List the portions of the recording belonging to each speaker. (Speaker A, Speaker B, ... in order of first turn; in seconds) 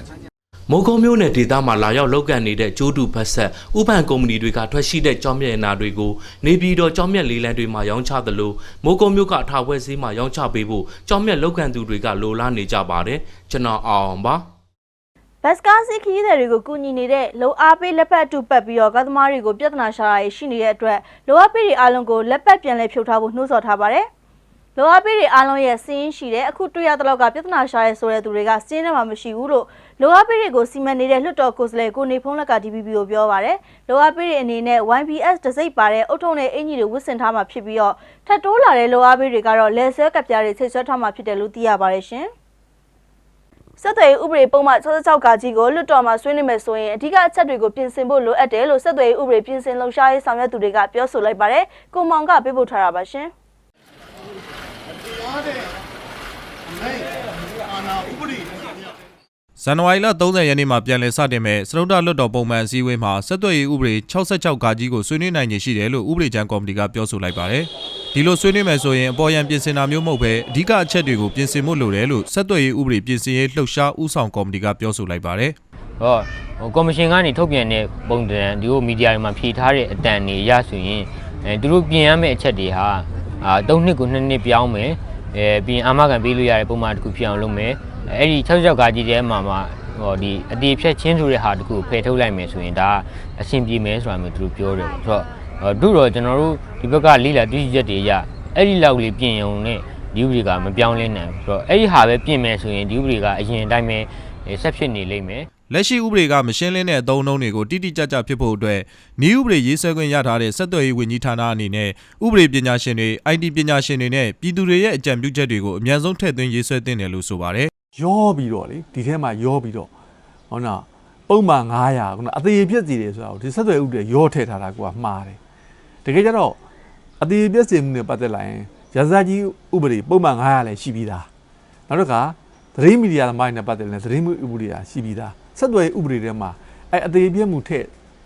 Speaker A: 0.7-14.5
Speaker B: 15.4-24.1, 24.8-42.3, 43.8-53.3
Speaker C: 59.6-75.6, 105.7-117.7
Speaker D: 76.0-105.5
Speaker E: 118.0-119.9, 120.5-125.4, 126.0-126.6, 127.2-131.3, 131.9-137.9